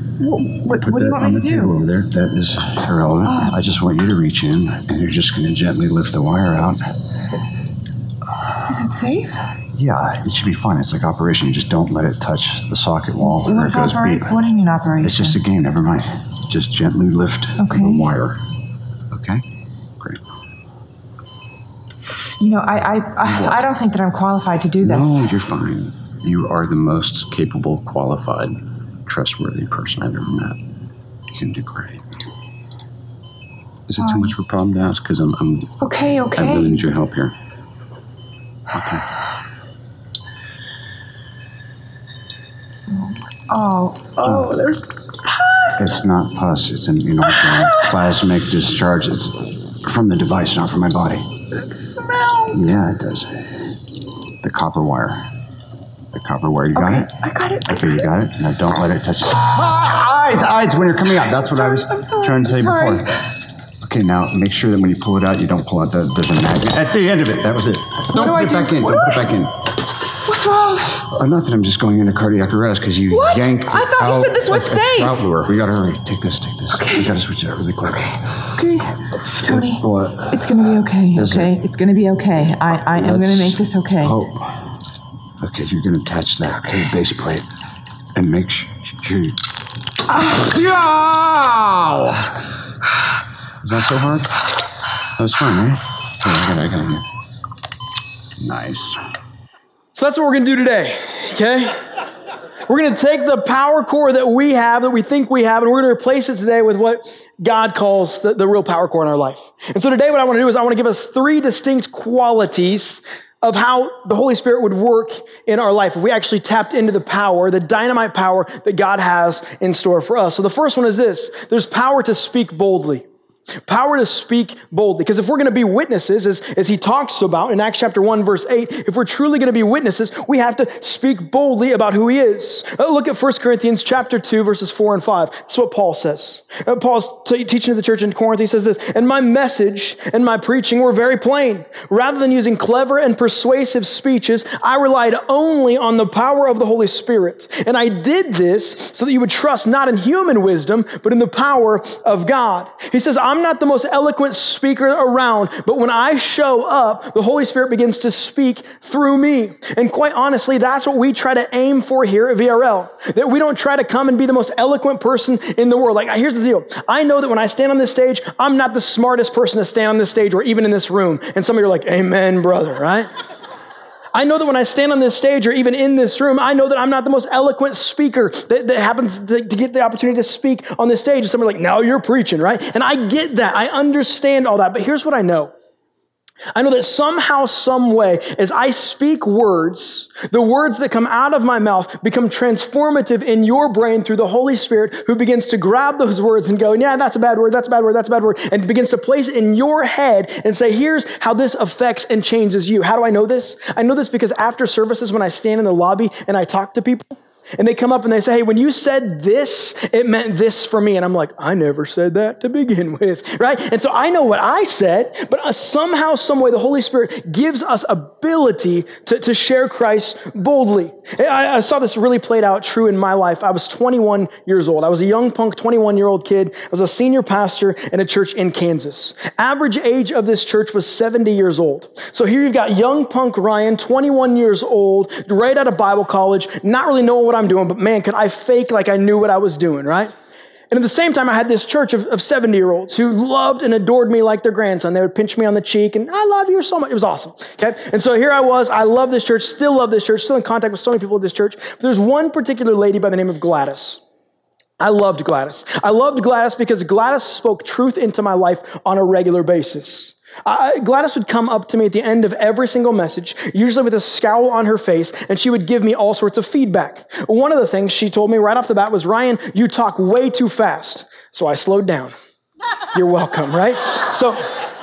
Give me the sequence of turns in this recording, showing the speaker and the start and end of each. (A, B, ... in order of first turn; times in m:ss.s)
0:00.2-0:01.7 A
0:00.8-0:06.8 B
0:03.3-0:03.5 A
0:08.6-0:09.4 A
0:09.7-0:14.4 B
0:13.2-0:15.4 A
0:15.0-0:18.4 B
0:17.6-0:18.1 A
0:19.1-0:19.4 B
0:20.0-0:20.2 B
0:22.4-0:25.3 A
0:23.2-0:23.6 B
0:24.8-0:30.6 B
0:31.3-0:32.2 B
0:33.9-0:35.8 B
0:34.0-0:34.3 A
0:35.8-0:36.9 A
0:36.3-0:37.3 B
0:38.7-0:39.0 B
0:42.9-0:45.8 A
0:44.2-0:44.6 B
0:45.8-0:51.4 B
0:47.2-0:47.9 A
0:51.5-0:52.7 A
0:52.5-0:53.6 B
0:54.4-0:55.3 B
0:56.1-0:57.1 B
0:56.7-0:58.1 A
0:57.6-1:03.1 B
1:01.2-1:03.1 A
1:03.8-1:09.7 B
1:08.1-1:09.3 A
1:10.2-1:11.0 A
1:11.0-1:18.5 B
1:13.1-1:15.2 A
1:16.7-1:17.1 A
1:18.5-1:24.2 A
1:19.4-1:20.5 B
1:21.1-1:21.5 B
1:22.9-1:24.7 B
1:25.4-1:27.4 B
1:28.1-1:29.4 B
1:30.1-1:32.4 B
1:33.6-1:34.3 B
1:35.2-1:37.0 B
1:38.4-1:39.0 B
1:39.9-1:41.8 C
1:42.7-2:03.0 C
2:03.6-2:53.1 C
2:54.1-3:05.5 C
3:06.5-4:00.1 C
4:00.7-4:14.0 C
4:14.8-4:32.1 C
4:32.9-4:34.4 C